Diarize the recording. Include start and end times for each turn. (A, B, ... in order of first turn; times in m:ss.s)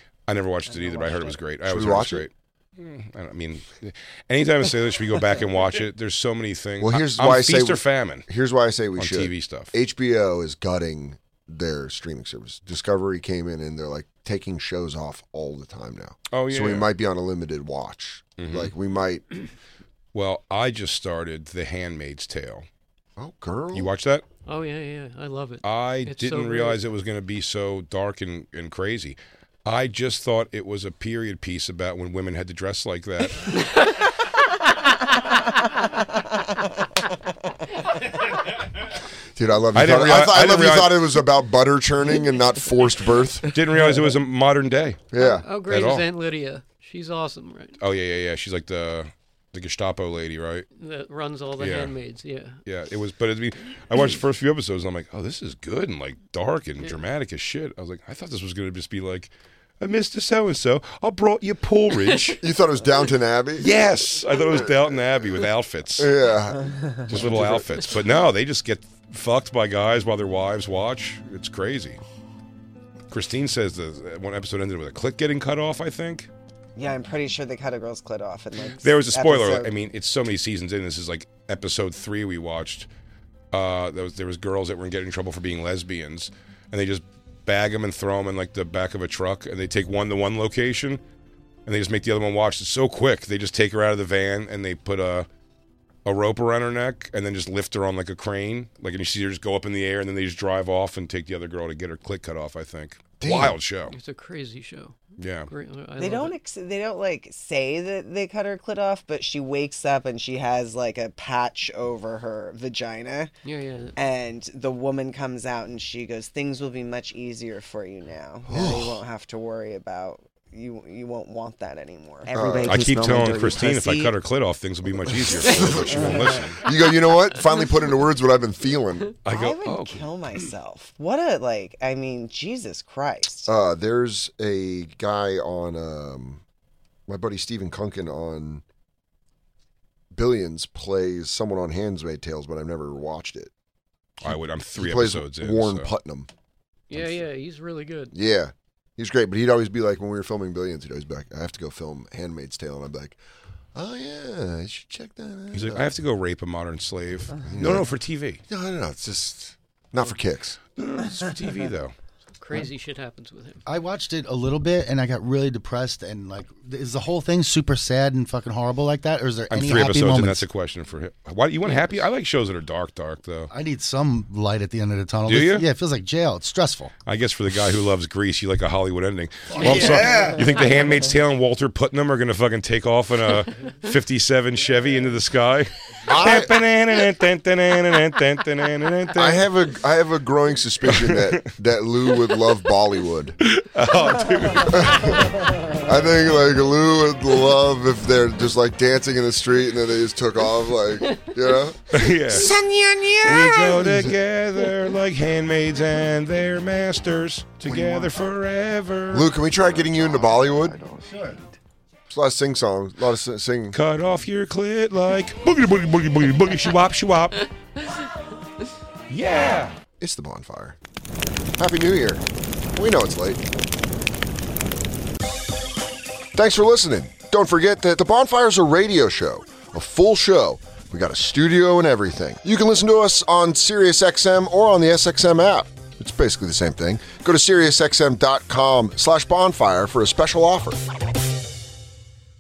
0:00.3-0:08.3 A
0:00.7-0:01.4 B
0:01.6-0:02.3 C
0:06.8-0:19.2 C
0:09.0-0:09.7 A
0:16.3-0:16.9 A
0:18.4-0:18.7 A
0:20.1-0:22.7 A
0:23.2-0:23.9 C
0:23.7-0:24.2 A
0:24.5-0:26.8 D
0:25.6-0:33.5 A
0:39.4-0:43.6 C
0:39.7-0:41.2 A
0:43.5-0:45.1 A
0:45.1-0:45.4 C
0:45.2-0:47.8 D
0:45.7-0:46.1 A
0:47.8-0:50.7 A
0:50.8-0:52.6 D
0:51.6-0:51.9 A
0:52.6-1:02.4 A
1:02.4-1:03.7 C
1:03.6-1:06.1 A
1:04.4-1:04.7 C
1:06.0-1:07.7 C
1:06.6-1:07.0 B
1:07.1-1:12.0 A
1:13.1-1:16.3 A
1:16.8-1:19.7 B
1:18.8-1:22.9 A
1:23.5-1:31.0 A
1:31.7-1:35.3 A
1:36.0-1:44.0 A
1:43.2-1:43.6 C
1:43.9-1:45.0 D
1:45.2-1:45.5 A
1:45.5-1:46.4 D
1:46.0-1:53.3 B
1:53.4-1:54.0 D
1:54.0-2:04.1 B
1:58.5-1:59.0 C
2:02.3-2:02.9 C
2:02.6-2:06.6 A
2:05.2-2:09.2 C
2:05.3-2:06.5 B
2:09.2-2:10.1 A
2:09.3-2:13.5 B
2:13.5-2:16.4 C
2:17.1-2:18.6 C
2:20.1-2:23.5 C
2:24.2-2:25.9 A
2:24.8-2:26.3 C
2:26.9-2:28.2 D
2:28.1-2:33.2 C
2:33.8-2:35.9 C
2:35.5-2:38.4 A
2:37.4-2:37.9 C
2:38.5-2:40.6 C
2:40.8-2:42.0 A
2:42.4-2:43.6 D
2:43.7-2:50.4 E
2:49.5-2:53.5 A
2:53.5-2:56.9 E
2:55.3-2:55.7 A
2:57.1-3:09.5 A
2:59.6-3:00.0 C
3:06.1-3:06.6 C
3:09.2-3:13.4 C
3:10.9-3:11.5 A
3:13.4-3:15.3 A
3:14.6-3:15.3 C
3:15.8-3:24.2 C
3:21.9-3:22.6 A
3:23.2-3:29.3 A
3:27.7-3:28.0 C
3:29.1-3:30.8 C
3:32.1-3:33.8 C
3:33.7-3:37.5 A
3:39.1-3:39.8 A
3:40.0-3:40.8 C
3:41.6-3:43.4 C
3:46.3-4:00.8 C